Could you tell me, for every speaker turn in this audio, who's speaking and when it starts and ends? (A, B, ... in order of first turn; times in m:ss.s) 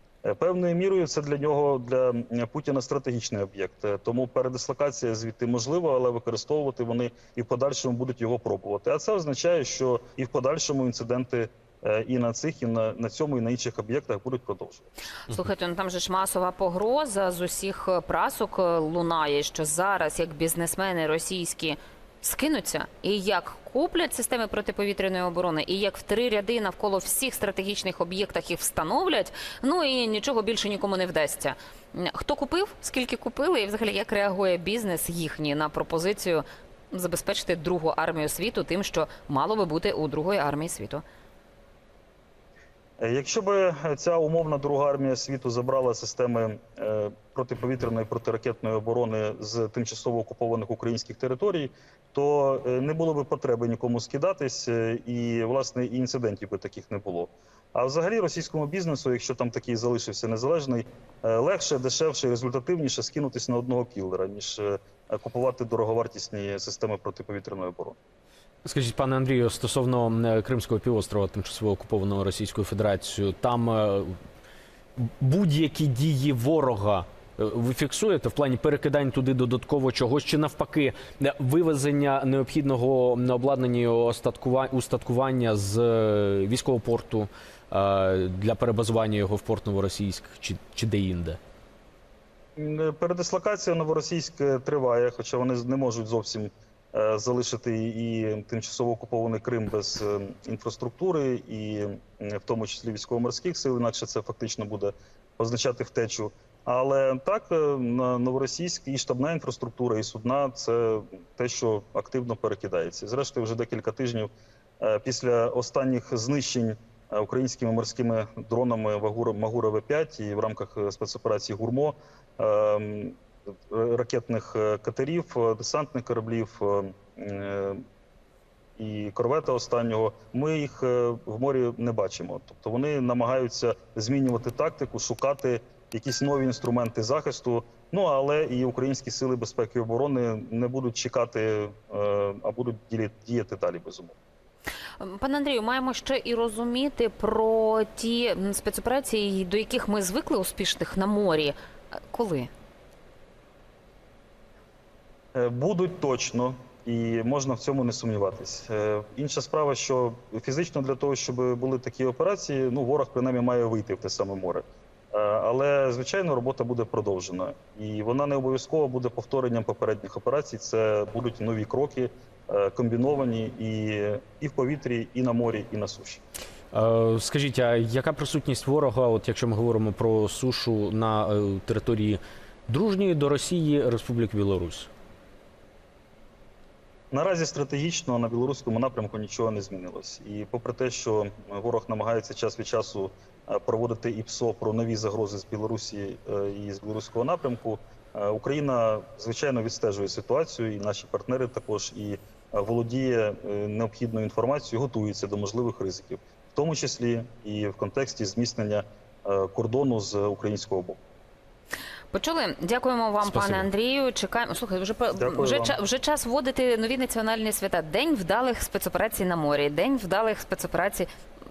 0:00.2-0:14.9 A
0:15.3-0:41.0 B
0:43.0-1:08.0 A
1:08.6-1:14.2 C
1:15.0-1:31.4 C
1:32.6-2:07.8 A
2:08.8-2:24.2 A
2:25.0-2:31.6 B
2:32.1-2:32.5 B
2:35.4-2:56.2 A
2:56.7-3:04.9 C
3:07.1-3:31.0 A
3:32.1-3:41.1 B
3:33.2-3:33.7 C
3:35.2-3:35.8 A